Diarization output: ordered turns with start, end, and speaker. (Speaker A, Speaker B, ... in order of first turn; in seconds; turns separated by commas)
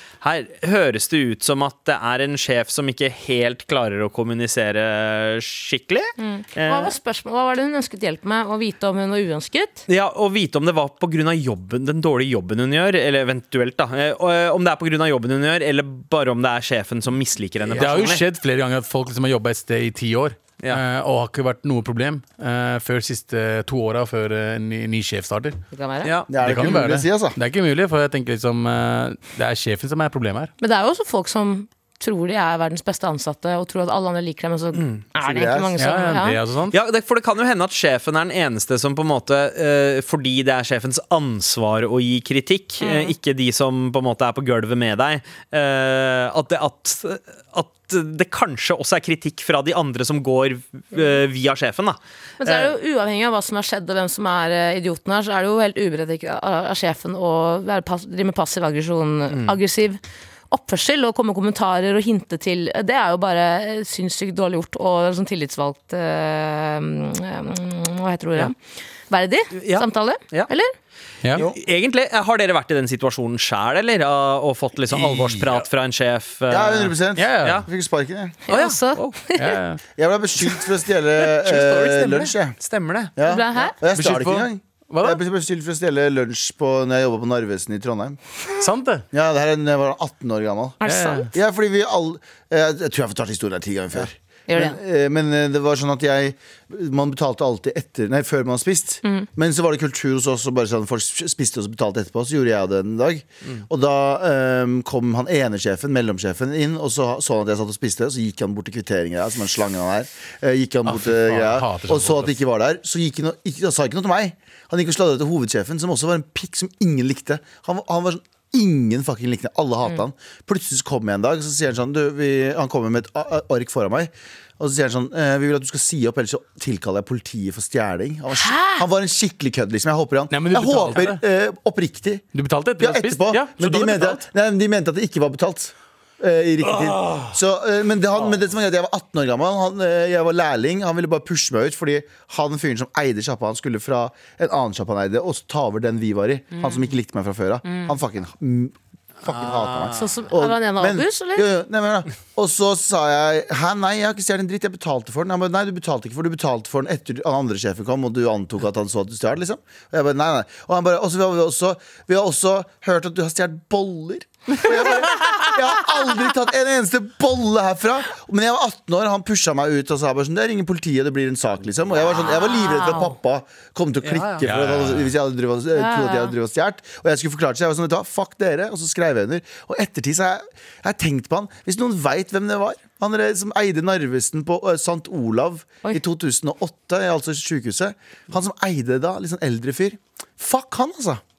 Speaker A: 0.2-6.9, Speaker B: 6.2-9.8, Speaker A: 9.9-18.2, Speaker C: 17.7-25.6, Speaker B: 25.7-26.1, Speaker A: 26.0-26.7, Speaker D: 26.3-27.4, Speaker C: 26.4-30.5, Speaker B: 30.6-36.4, Speaker A: 34.7-35.0, Speaker D: 35.1-35.7, Speaker C: 35.8-36.8, Speaker A: 36.7-52.7, Speaker B: 42.8-43.1, Speaker B: 52.4-68.6, Speaker A: 59.3-59.5, Speaker B: 69.1-70.7, Speaker A: 69.5-70.5, Speaker A: 71.3-77.7, Speaker C: 74.9-75.7, Speaker D: 76.5-78.4, Speaker C: 77.2-77.6, Speaker A: 78.5-79.2, Speaker B: 78.5-79.6, Speaker C: 79.4-79.8, Speaker D: 80.0-82.5, Speaker A: 81.2-83.1, Speaker D: 83.2-88.2, Speaker B: 83.2-83.8, Speaker C: 83.9-85.2, Speaker C: 88.6-89.0, Speaker D: 89.1-132.3, Speaker B: 90.8-91.3, Speaker C: 90.8-91.3, Speaker B: 94.5-94.8, Speaker C: 110.9-112.3, Speaker B: 128.3-128.8, Speaker C: 130.3-131.2, Speaker C: 132.3-134.2, Speaker D: 132.8-191.2, Speaker C: 136.7-137.3, Speaker B: 147.7-147.9, Speaker A: 149.2-150.1, Speaker B: 149.9-151.5, Speaker B: 172.2-173.2, Speaker A: 174.0-174.5, Speaker C: 174.4-175.1, Speaker B: 175.7-176.3